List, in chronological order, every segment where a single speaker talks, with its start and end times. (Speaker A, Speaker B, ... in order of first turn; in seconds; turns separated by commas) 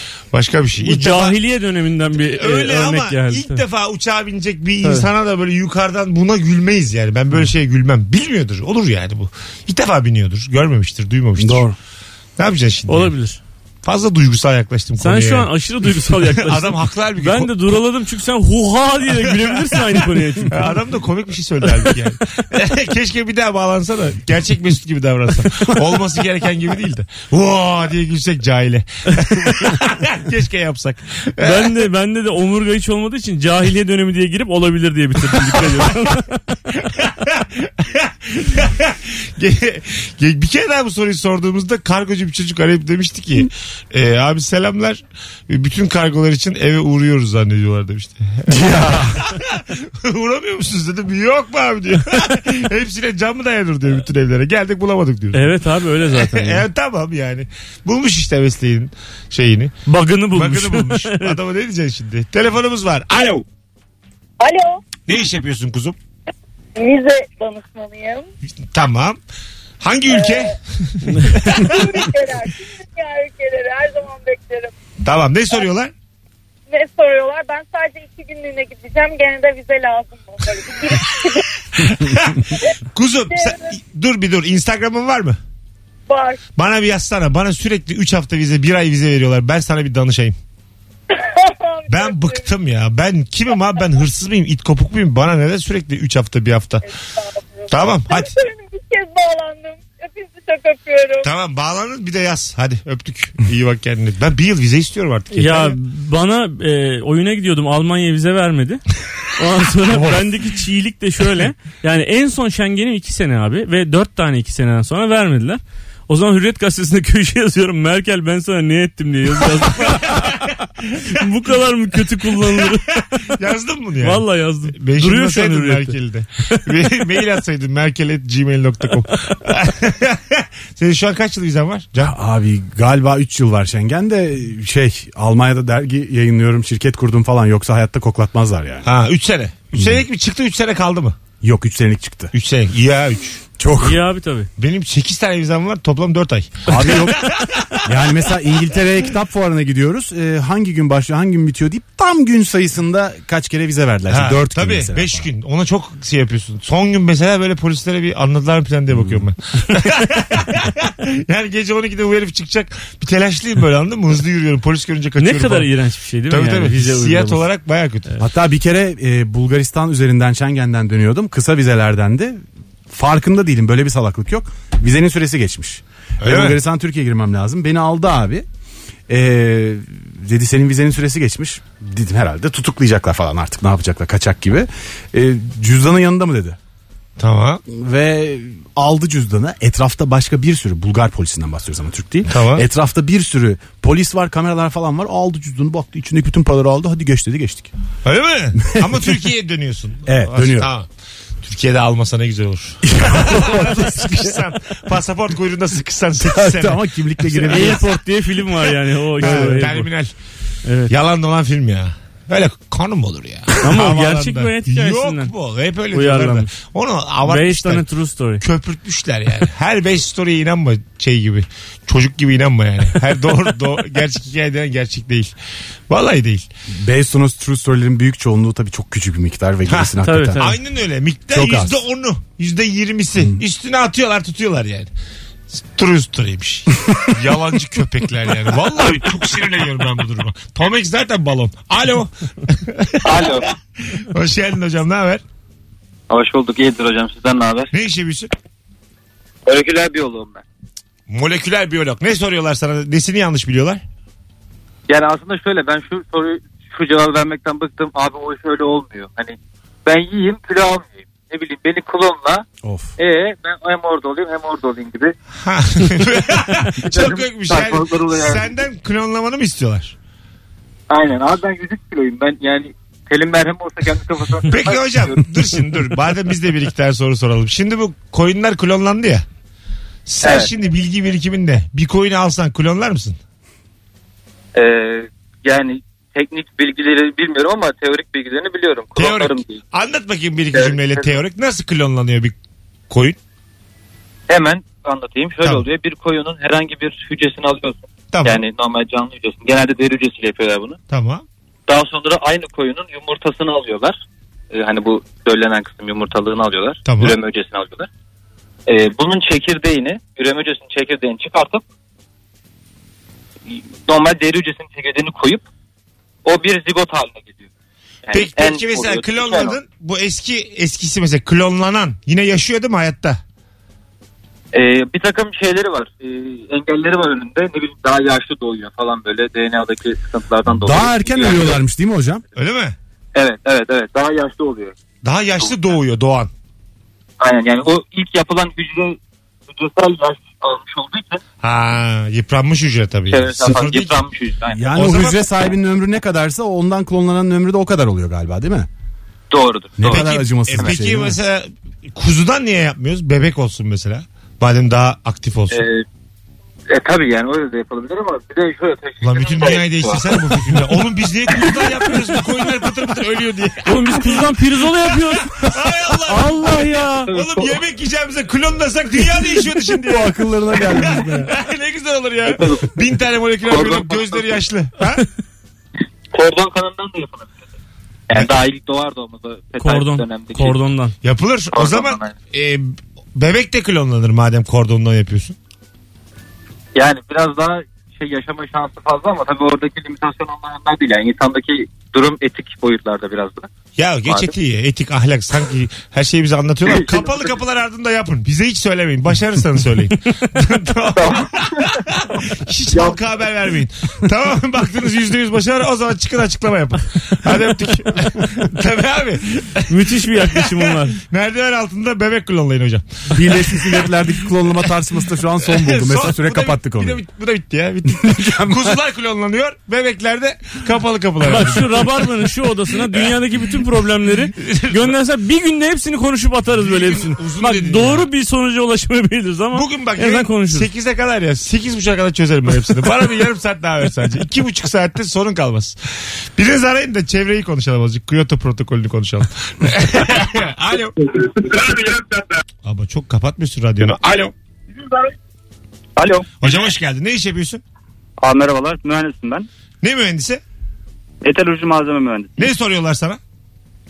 Speaker A: 0.3-1.4, Speaker B: 0.8-3.6, Speaker A: 2.2-11.7, Speaker C: 11.4-11.8, Speaker A: 12.4-13.1, Speaker B: 12.9-13.4, Speaker A: 13.8-15.5, Speaker B: 15.0-20.8, Speaker A: 16.1-17.5, Speaker A: 19.1-19.8, Speaker A: 20.4-31.8, Speaker B: 31.4-36.6, Speaker A: 36.9-59.7, Speaker C: 48.5-49.2, Speaker B: 55.3-56.6, Speaker B: 59.9-61.4, Speaker A: 60.3-63.4, Speaker D: 64.4-64.8, Speaker A: 65.1-66.0, Speaker D: 66.8-68.2, Speaker A: 68.7-69.2, Speaker A: 69.8-71.9, Speaker D: 70.1-70.5, Speaker D: 71.4-74.7, Speaker A: 75.0-75.9, Speaker D: 76.7-81.4, Speaker A: 81.8-85.4, Speaker D: 83.3-83.7, Speaker D: 86.1-86.4, Speaker A: 86.5-90.3, Speaker D: 91.1-92.5, Speaker A: 91.9-96.8, Speaker D: 96.8-101.3, Speaker A: 97.7-98.3, Speaker A: 101.2-105.8, Speaker B: 105.3-108.8, Speaker B: 109.3-120.3, Speaker C: 109.9-110.2, Speaker A: 119.7-121.2, Speaker B: 121.1-123.2, Speaker A: 122.3-122.7, Speaker A: 123.3-132.1, Speaker B: 124.0-126.0, Speaker C: 132.0-138.9, Speaker A: 138.8-141.2, Speaker C: 139.7-140.0, Speaker C: 141.4-142.3, Speaker A: 142.3-143.4, Speaker C: 143.6-144.0, Speaker B: 143.8-144.5, Speaker A: 144.6-147.8, Speaker C: 146.7-147.3, Speaker C: 147.8-155.3, Speaker A: 154.1-165.7, Speaker C: 158.9-159.2, Speaker B: 165.2-167.4, Speaker A: 166.3-168.1, Speaker C: 168.2-178.4, Speaker A: 176.2-176.6, Speaker C: 179.1-186.6, Speaker A: 187.2-187.6, Speaker C: 187.7-197.7, Speaker A: 192.3-192.6, Speaker A: 198.0-200.9, Speaker C: 198.6-199.2, Speaker C: 200.1-200.7, Speaker A: 201.4-207.8, Speaker C: 202.8-204.4, Speaker C: 206.2-207.8, Speaker B: 207.5-209.9, Speaker C: 209.2-209.8, Speaker A: 209.2-210.1, Speaker B: 210.6-210.9, Speaker A: 210.9-217.8, Speaker B: 213.6-215.3, Speaker B: 215.9-216.5, Speaker B: 217.2-218.4, Speaker A: 218.4-225.3, Speaker A: 225.9-226.5, Speaker C: 226.7-230.6, Speaker A: 229.7-234.9, Speaker B: 230.0-230.6, Speaker C: 231.3-231.8, Speaker A: 235.6-245.2, Speaker E: 243.0-243.5, Speaker E: 246.1-247.7, Speaker A: 247.7-248.3, Speaker E: 249.4-250.4, Speaker A: 251.1-253.8, Speaker E: 254.9-262.4, Speaker C: 262.6-262.9, Speaker E: 263.0-265.1, Speaker A: 265.4-269.9, Speaker E: 266.8-268.5, Speaker E: 270.9-275.4, Speaker A: 274.5-279.2, Speaker A: 280.1-283.2, Speaker E: 280.2-280.5, Speaker E: 284.5-289.6, Speaker A: 289.0-292.4, Speaker E: 290.5-291.2, Speaker A: 292.9-293.2, Speaker E: 294.3-300.8, Speaker A: 298.1-298.4, Speaker A: 300.9-301.2, Speaker E: 301.7-304.0, Speaker E: 304.5-307.9, Speaker A: 306.9-307.2, Speaker E: 308.7-311.6, Speaker E: 313.5-315.4, Speaker E: 316.2-317.4, Speaker E: 318.1-319.6, Speaker A: 318.1-323.2, Speaker E: 324.5-331.6, Speaker C: 330.5-332.2, Speaker A: 332.4-332.8, Speaker E: 333.1-334.8, Speaker A: 335.0-336.3, Speaker E: 337.2-339.0, Speaker E: 339.5-341.2, Speaker A: 341.4-344.0, Speaker E: 343.1-345.0, Speaker C: 344.5-348.7, Speaker A: 344.7-345.2, Speaker E: 349.3-350.8, Speaker C: 349.8-351.2, Speaker A: 349.8-355.6, Speaker E: 355.5-355.8, Speaker E: 356.7-360.7, Speaker A: 359.0-364.3, Speaker E: 361.3-361.7, Speaker B: 363.6-365.4, Speaker A: 365.1-366.4, Speaker B: 366.1-367.1, Speaker E: 367.1-367.6, Speaker A: 367.1-375.0, Speaker C: 369.8-371.3, Speaker E: 372.2-372.8, Speaker E: 373.4-374.4, Speaker E: 376.1-377.3, Speaker E: 378.1-380.6, Speaker B: 379.6-380.9, Speaker A: 381.0-385.4, Speaker E: 381.5-382.1, Speaker E: 386.8-393.5, Speaker A: 393.8-413.9, Speaker E: 394.1-394.3, Speaker E: 396.6-397.3, Speaker B: 409.7-411.0, Speaker C: 413.1-417.0, Speaker A: 415.5-422.1, Speaker C: 417.9-418.8, Speaker B: 421.2-430.7, Speaker A: 424.4-424.8, Speaker A: 426.5-428.1, Speaker A: 429.5-435.8, Speaker A: 436.4-441.0, Speaker A: 442.6-444.3, Speaker F: 445.9-446.3, Speaker A: 446.4-447.6, Speaker F: 448.2-449.5, Speaker A: 449.8-450.4, Speaker F: 451.2-452.5, Speaker A: 452.4-453.2